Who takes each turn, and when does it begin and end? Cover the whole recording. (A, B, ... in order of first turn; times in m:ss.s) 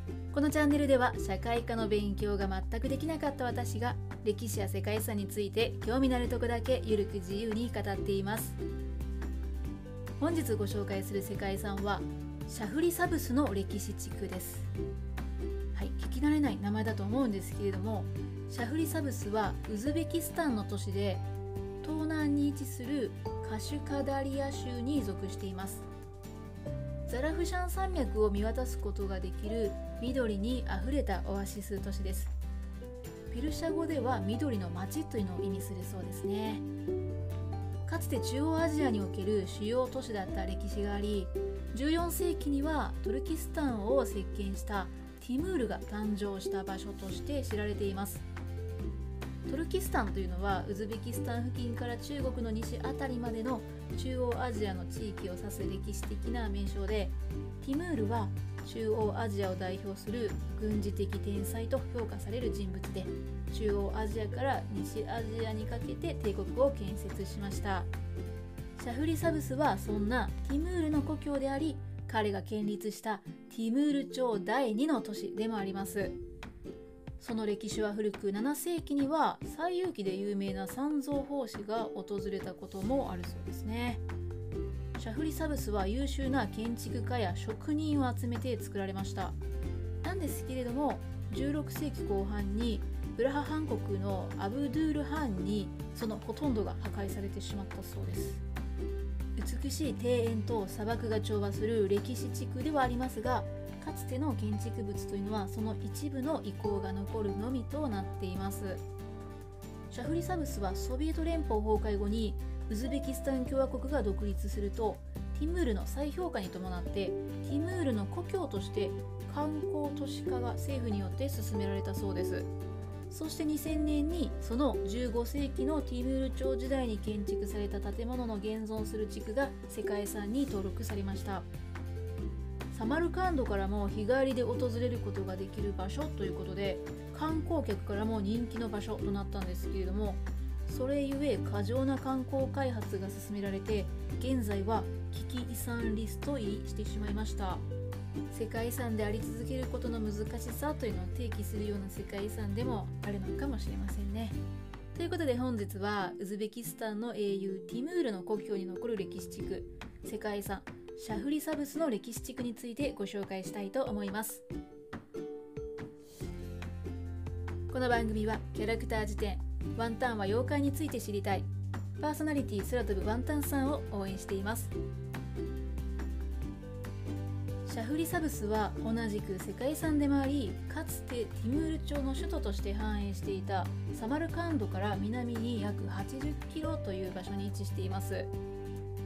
0:00.3-0:08.6 A
0:10.2-0:14.7 A
0:15.7-0:21.3 A
0:21.8-0:25.9 A
0:27.0-0:32.3 A
0:33.3-0:36.7 A
0:37.9-0:48.3 A
0:49.4-1:07.9 A
1:08.8-1:16.2 A
1:17.2-1:24.0 A
1:24.9-1:29.4 A
1:30.0-1:38.4 A
1:39.4-1:48.8 A
1:49.9-2:02.5 A
2:03.1-2:11.5 A
2:12.7-2:27.6 A
2:28.3-2:34.4 A
2:34.9-2:44.4 A
2:47.7-2:54.8 A
2:57.6-3:08.3 A